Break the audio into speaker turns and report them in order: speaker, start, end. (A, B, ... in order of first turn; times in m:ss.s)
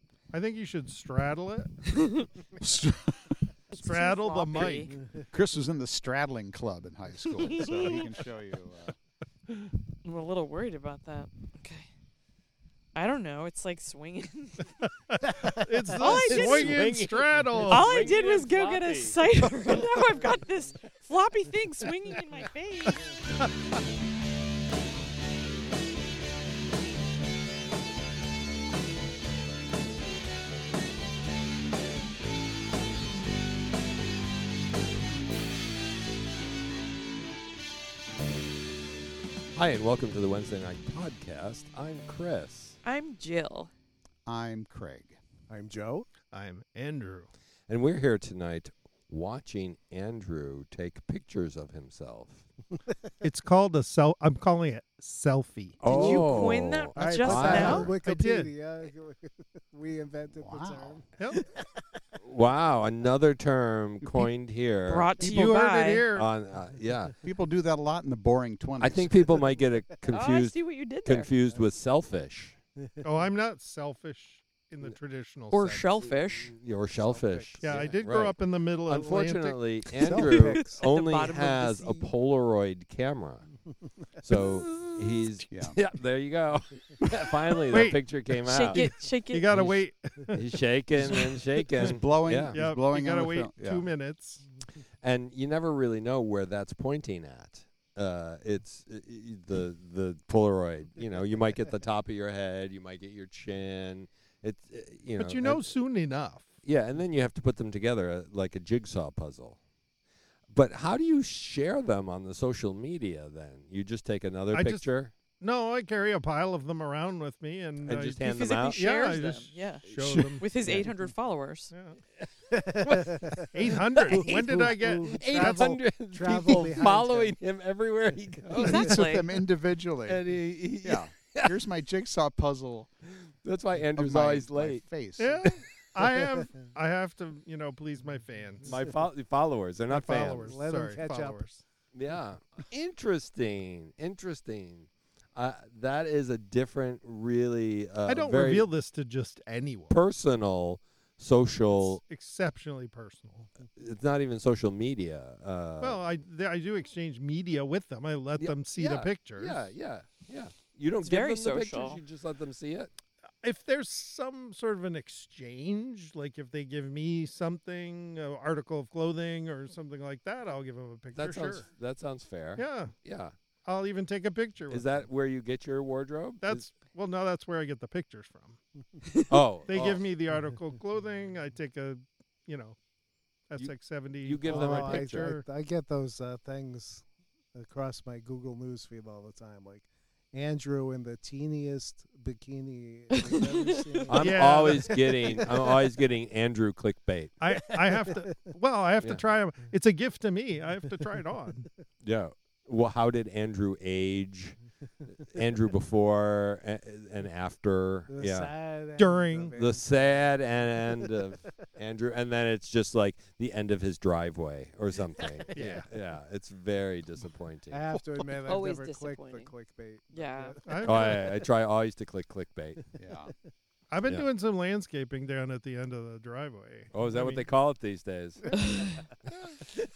0:00.3-0:01.7 A
0:01.9-0:02.2 B
0:02.6-0:03.9 C
0:03.7-0:04.9 A
0:03.9-0:04.9 B
0:05.3-0:09.0 C
0:07.4-0:08.1 B
0:10.0-0:11.9 B
0:13.0-0:14.7 B
0:15.1-0:18.0 A
0:15.2-0:15.9 D
0:16.0-0:16.8 B
0:16.0-0:20.4 E
0:17.7-0:23.0 B
0:39.6-0:42.8 E
0:42.8-0:43.7 B
0:44.3-0:45.2 C
0:45.5-0:46.1 D
0:46.3-0:47.3 A
0:47.7-0:52.4 E
0:53.2-0:55.8 A
0:55.8-0:57.9 E
0:55.9-0:57.9 B
0:55.9-1:02.0 D
0:57.0-0:58.5 A
1:00.4-1:01.0 C
1:02.2-1:05.2 E
1:04.9-1:06.1 B
1:05.2-1:06.3 A
1:06.1-1:07.2 E
1:07.2-1:09.2 C
1:08.8-1:12.6 E
1:10.1-1:11.3 B
1:13.0-1:15.9 A
1:15.5-1:16.5 B
1:16.0-1:17.9 D
1:16.3-1:23.5 E
1:17.6-1:19.6 A
1:20.0-1:20.8 D
1:20.3-1:22.1 B
1:24.2-1:28.9 E
1:25.5-1:25.8 C
1:27.7-1:28.0 A
1:28.4-1:29.5 B
1:28.7-1:30.4 A
1:30.3-1:32.6 E
1:31.0-1:32.0 A
1:31.9-1:33.9 C
1:32.5-1:34.4 A
1:35.0-1:45.7 E
1:45.2-1:46.5 A
1:46.6-1:49.6 E
1:50.5-1:55.1 E
1:54.5-1:54.9 A
1:55.4-2:00.5 A
1:57.8-1:58.8 E
1:58.2-2:01.7 B
2:00.0-2:00.3 C
2:00.6-2:01.1 D
2:01.7-2:02.0 A
2:02.5-2:03.5 D
2:02.8-2:03.2 E
2:03.5-2:05.7 A
2:03.7-2:09.3 E
2:04.1-2:07.4 D
2:08.5-2:08.9 D
2:08.6-2:09.3 B
2:08.7-2:10.2 C
2:10.0-2:11.6 E
2:10.8-2:12.9 C
2:13.2-2:14.8 E
2:13.9-2:15.4 C
2:15.2-2:18.8 A
2:16.2-2:16.5 D
2:18.7-2:20.6 E
2:19.9-2:21.6 A
2:20.4-2:21.5 D
2:21.9-2:28.7 E
2:28.1-2:30.0 A
2:29.9-2:32.0 E
2:31.7-2:33.5 A
2:33.8-2:36.0 E
2:35.8-2:39.7 A
2:38.4-2:42.9 E
2:41.0-2:42.0 B
2:43.4-2:51.7 A
2:51.1-2:53.3 E
2:52.6-2:53.0 A
2:53.6-2:54.9 A
2:54.7-2:56.6 E
2:56.4-2:58.6 A
2:59.3-3:00.0 E
2:59.7-3:02.8 A
3:03.5-3:05.4 A
3:03.6-3:05.2 E
3:04.4-3:15.7 D
3:13.1-3:14.2 B
3:14.1-3:17.4 E
3:14.1-3:14.9 A
3:17.4-3:21.7 A
3:17.6-3:18.5 D
3:22.0-3:24.6 E
3:25.2-3:28.5 E
3:28.1-3:30.0 D
3:29.0-3:29.6 A
3:29.6-3:37.8 E
3:31.2-3:31.5 D
3:35.5-3:35.9 A
3:37.7-3:41.3 D
3:38.5-3:39.5 B
3:40.1-3:40.6 B
3:40.6-3:41.3 A
3:40.8-3:42.8 E
3:43.0-3:43.3 C
3:43.9-3:47.4 A
3:46.9-3:49.6 E
3:48.6-3:48.9 B